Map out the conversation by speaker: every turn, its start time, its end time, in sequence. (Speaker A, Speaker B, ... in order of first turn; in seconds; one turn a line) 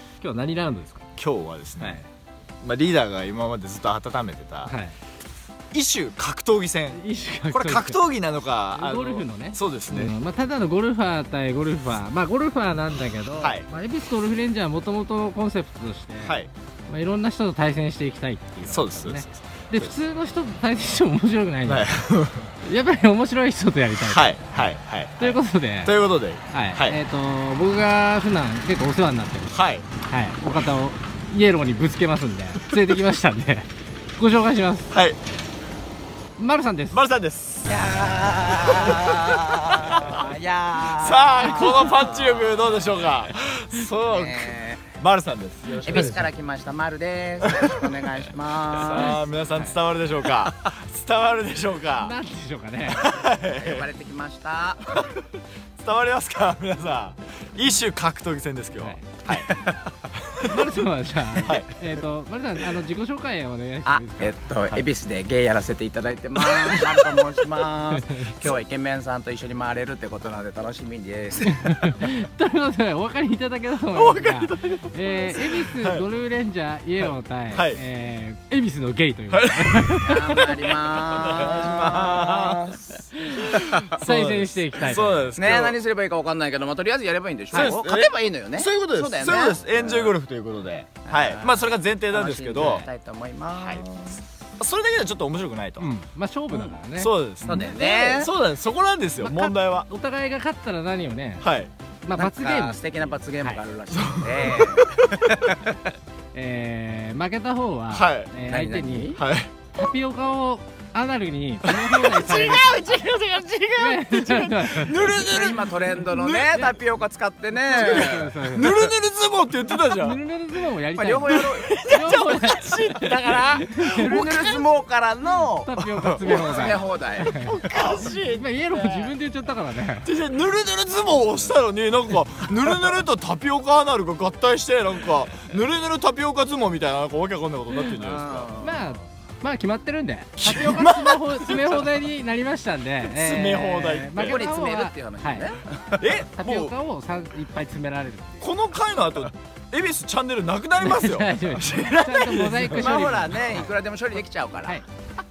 Speaker A: 0.2-1.0
Speaker B: 1.2-2.0
Speaker B: 2.6-4.7
Speaker A: 4.7-5.0
Speaker B: 5.7-10.1
Speaker A: 6.9-8.0
Speaker A: 8.8-21.9
Speaker B: 13.4-13.7
Speaker B: 16.2-16.5
Speaker B: 18.7-19.9
Speaker B: 21.7-22.5
Speaker A: 22.6-24.4
Speaker B: 24.1-27.0
Speaker A: 25.2-25.9
Speaker A: 26.5-34.9
Speaker B: 29.5-29.9
Speaker B: 34.9-35.2
Speaker A: 36.4-37.0
Speaker B: 36.9-37.8
Speaker C: 37.7-43.0
Speaker B: 38.7-40.2
Speaker B: 41.0-46.2
Speaker C: 44.0-44.9
Speaker C: 45.8-49.2
Speaker A: 45.9-46.2
Speaker B: 47.4-47.8
Speaker B: 48.7-52.1
Speaker A: 52.0-53.0
Speaker B: 52.9-53.8
Speaker C: 53.5-54.8
Speaker B: 54.9-60.7
Speaker A: 58.8-59.2
Speaker A: 60.4-64.4
Speaker B: 61.4-61.7
Speaker C: 63.8-71.8
Speaker A: 67.9-68.5
Speaker A: 71.5-80.5
Speaker B: 73.9-76.0
Speaker B: 77.0-77.8
Speaker B: 79.3-82.8
Speaker C: 80.0-83.8
Speaker A: 83.3-85.3
Speaker B: 83.4-85.8
Speaker C: 85.4-90.1
Speaker A: 87.5-87.8
Speaker B: 87.5-92.9
Speaker C: 91.0-94.2
Speaker B: 93.5-93.8
Speaker B: 94.6-96.0
Speaker A: 95.8-97.7
Speaker C: 96.5-96.8
Speaker B: 97.0-99.9
Speaker C: 97.4-98.3
Speaker A: 99.9-101.5
Speaker B: 101.4-101.7
Speaker A: 102.0-103.6
Speaker C: 102.2-105.6
Speaker B: 103.9-105.5
Speaker A: 106.3-109.2
Speaker B: 107.9-108.3
Speaker C: 108.5-109.1
Speaker B: 109.2-109.5
Speaker A: 109.7-112.8
Speaker B: 111.6-116.7
Speaker A: 113.8-115.0
Speaker C: 114.9-118.9
Speaker A: 117.7-118.7
Speaker B: 117.7-120.2
Speaker A: 119.9-124.4
Speaker C: 121.0-121.8
Speaker B: 121.3-129.1
Speaker C: 123.8-125.7
Speaker A: 125.6-127.6
Speaker C: 126.2-127.9
Speaker A: 128.3-130.1
Speaker B: 130.0-138.5
Speaker C: 137.8-138.9
Speaker A: 138.6-145.5
Speaker B: 140.4-141.9
Speaker B: 143.0-144.4
Speaker C: 144.2-146.0
Speaker B: 146.0-146.7
Speaker A: 146.2-148.5
Speaker B: 148.4-153.1
Speaker A: 150.8-153.7
Speaker C: 152.7-154.8